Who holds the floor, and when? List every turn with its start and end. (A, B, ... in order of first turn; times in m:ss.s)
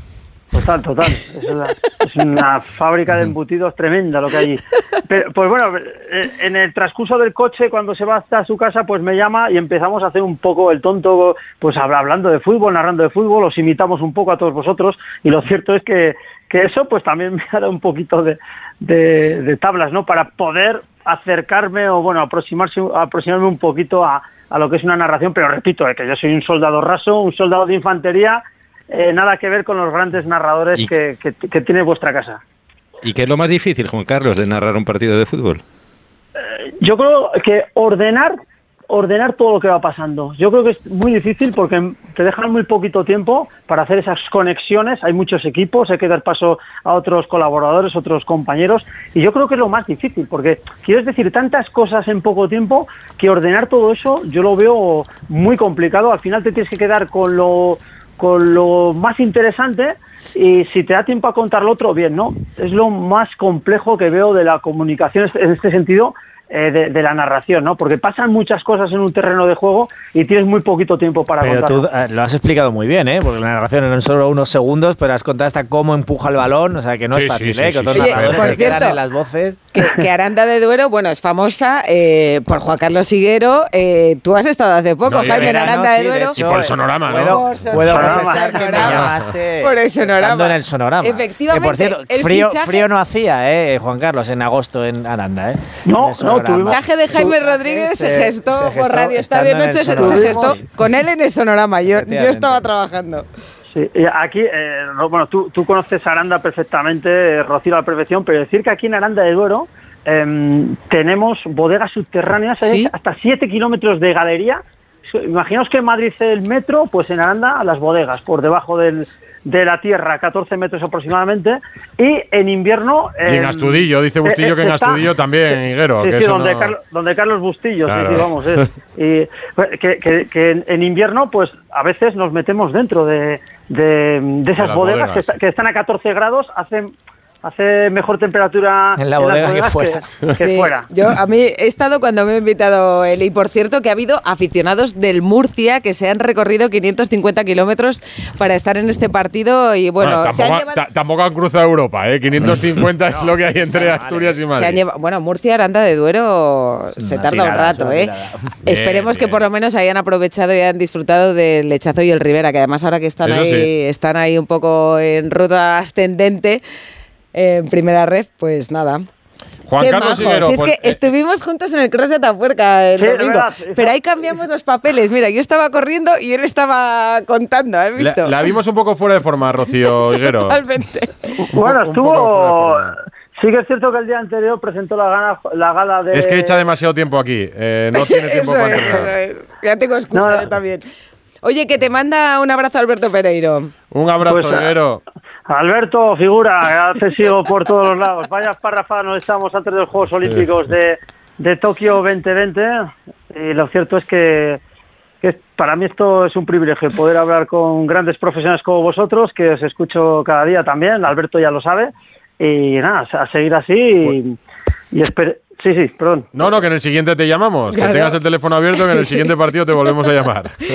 0:00.5-0:32.4 A
0:33.0-0:35.6 B
0:36.5-0:38.3 A
0:38.9-1:11.8 A
1:11.4-1:19.6 C
1:17.1-1:18.8 D
1:17.9-1:19.0 E
1:19.7-1:26.4 E
1:25.1-1:25.7 D
1:25.2-1:40.6 C
1:26.4-1:27.5 D
1:27.2-1:32.9 E
1:27.8-1:28.8 A
1:28.8-1:29.2 D
1:35.8-1:36.8 A
1:36.7-1:43.3 E
1:40.0-1:40.6 A
1:41.9-1:42.7 C
1:43.7-2:05.1 A
1:52.6-1:52.9 E
2:03.3-2:06.7 D
2:06.0-2:16.9 A
2:07.9-2:08.7 D
2:14.6-2:15.3 D
2:17.4-2:20.9 A
2:19.0-2:20.1 C
2:20.4-2:30.8 E
2:30.0-2:34.8 D
2:32.5-2:34.4 C
2:34.5-2:38.1 E
2:37.0-2:38.5 C
2:38.6-2:39.4 D
2:38.6-2:46.6 E
2:43.2-2:43.7 D
2:47.3-2:49.0 E
2:49.7-2:51.0 D
2:49.8-2:58.4 E
2:53.0-2:54.0 A
2:58.0-3:00.6 D
2:59.7-3:01.3 E
3:01.4-3:06.7 A
3:01.6-3:03.0 D
3:06.1-3:09.1 D
3:08.0-3:10.8 E
3:10.1-3:10.5 A
3:11.4-3:13.7 E
3:13.9-3:15.0 D
3:14.2-3:14.7 A
3:15.5-3:22.7 A
3:23.3-3:24.6 A
3:25.2-3:34.3 A
3:34.9-3:36.3 A
3:36.3-3:40.6 D
3:37.7-3:38.2 E
3:38.8-3:39.3 E